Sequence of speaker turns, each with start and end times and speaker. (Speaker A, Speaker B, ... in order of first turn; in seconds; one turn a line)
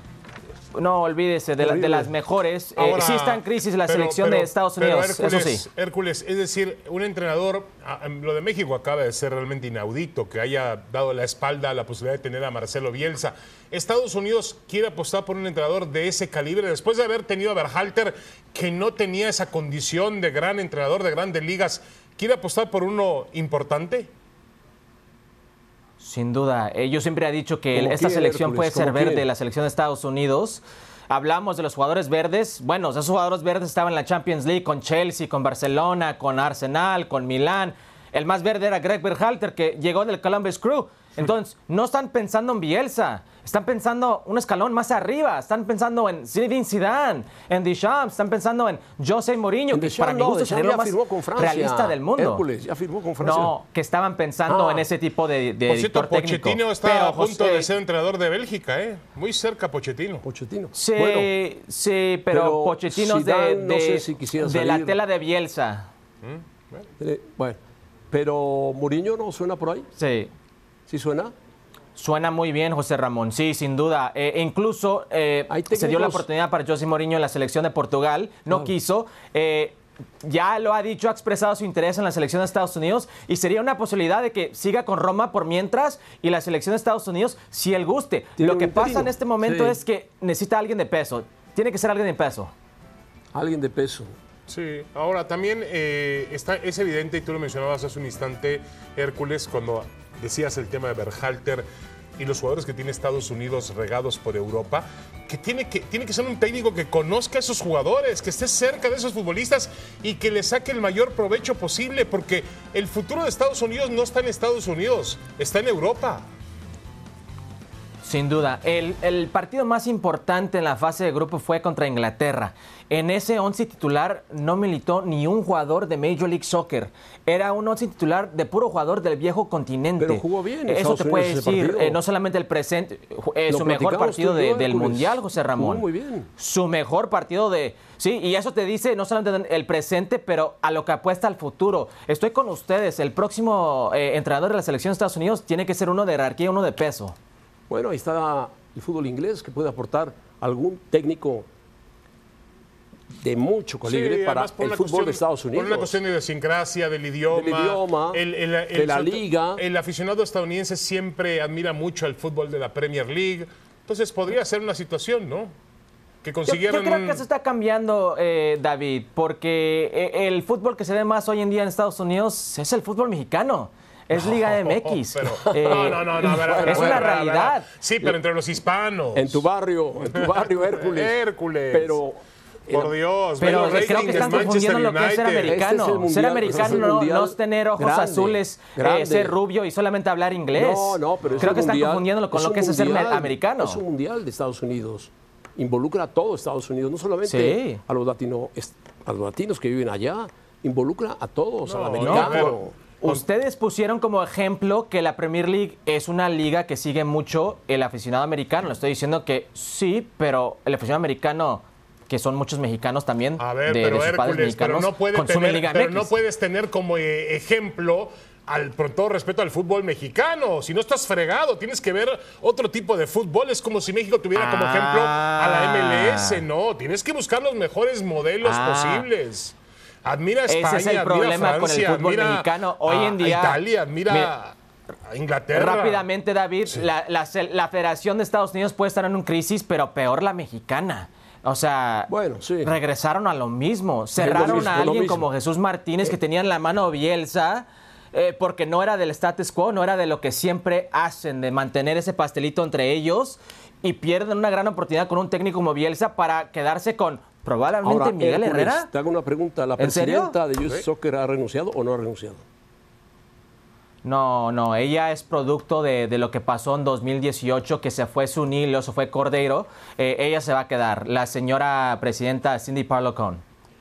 Speaker A: 0.7-5.6
Speaker B: 1.6-2.1
Speaker C: 2.8-24.1
Speaker A: 26.0-52.4
Speaker B: 27.7-29.2
Speaker B: 49.7-53.5
Speaker A: 53.2-57.7
Speaker B: 54.5-54.8
Speaker C: 55.7-60.2
Speaker B: 60.2-61.3
Speaker A: 60.7-65.9
Speaker B: 62.3-65.0
Speaker C: 66.2-66.8
Speaker B: 67.0-67.6
Speaker B: 68.1-69.9
Speaker A: 70.0-70.3
Speaker B: 70.9-71.3
Speaker A: 71.9-92.5
Speaker B: 75.5-76.2
Speaker B: 88.4-89.8
Speaker B: 93.3-94.1
Speaker C: 94.5-101.7
Speaker C: 102.2-116.3
Speaker A: 118.0-135.8
Speaker B: 130.0-132.0
Speaker B: 133.5-136.3
Speaker A: 136.4-147.2
Speaker B: 147.7-151.4
Speaker B: 153.1-156.0
Speaker C: 153.8-165.6
Speaker B: 157.3-159.6
Speaker C: 166.2-167.2
Speaker A: 166.5-177.7
Speaker C: 174.1-179.4
Speaker B: 175.4-177.1
Speaker B: 179.1-181.2
Speaker C: 180.0-182.0
Speaker B: 181.7-184.5
Speaker C: 182.7-185.6
Speaker A: 183.4-193.8
Speaker B: 185.4-189.3
Speaker B: 190.5-202.8
Speaker C: 191.2-191.7
Speaker A: 197.2-197.8
Speaker C: 201.6-203.2
Speaker A: 202.0-216.1
Speaker C: 213.4-234.6
Speaker A: 224.3-226.4
Speaker A: 228.4-229.1
Speaker A: 230.5-234.3
Speaker C: 235.1-236.1
Speaker A: 235.5-242.1
Speaker B: 242.1-242.7
Speaker A: 242.6-258.9
Speaker B: 244.2-245.2
Speaker B: 257.8-262.4
Speaker A: 259.8-260.3
Speaker A: 264.0-273.4